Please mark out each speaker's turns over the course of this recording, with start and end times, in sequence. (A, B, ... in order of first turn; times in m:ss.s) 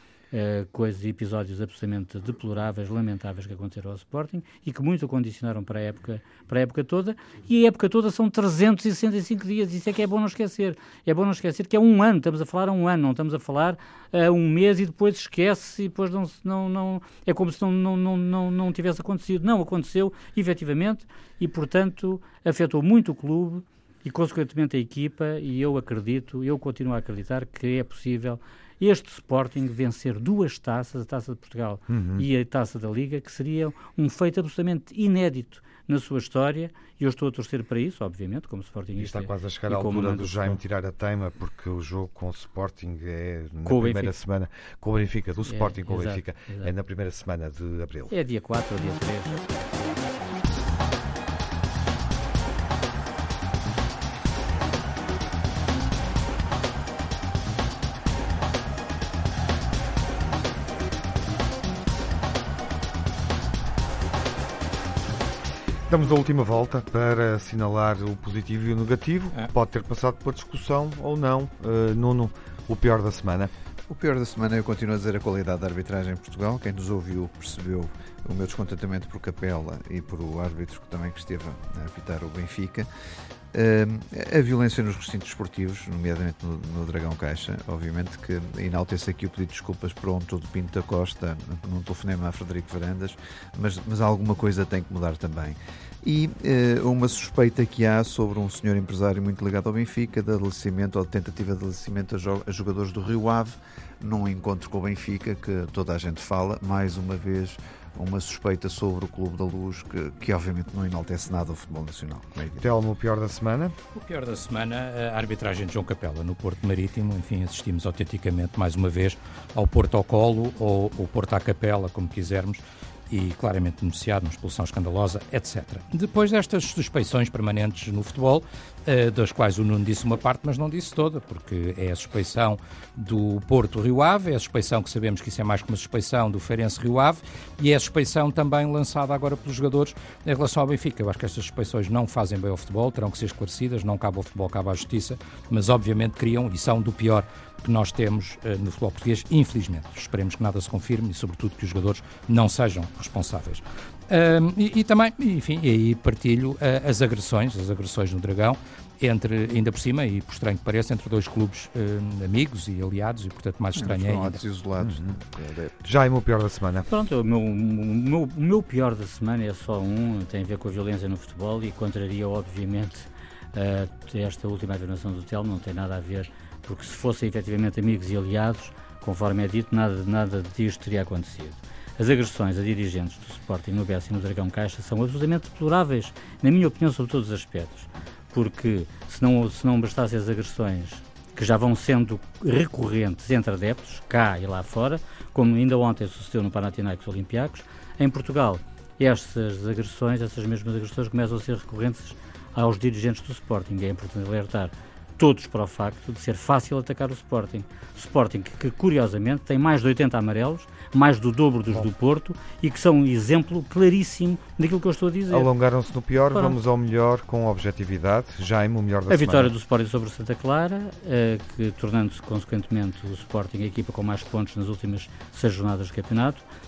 0:00.3-0:40.6 A
0:31.9-0:32.2 B
0:39.0-0:48.1 B
0:43.6-0:44.1 A
0:45.5-0:46.7 A
0:48.1-0:49.5 A
1:05.9-1:13.5 B
1:13.9-1:22.9 C
1:23.5-1:52.7 C
1:52.6-1:53.7 B
1:53.9-2:44.4 D
2:43.7-2:45.7 C
2:44.8-2:45.2 B
2:45.8-2:46.9 B
2:46.9-3:35.5 A
3:35.3-3:39.5 B
3:36.3-3:36.6 A
3:39.1-3:46.4 A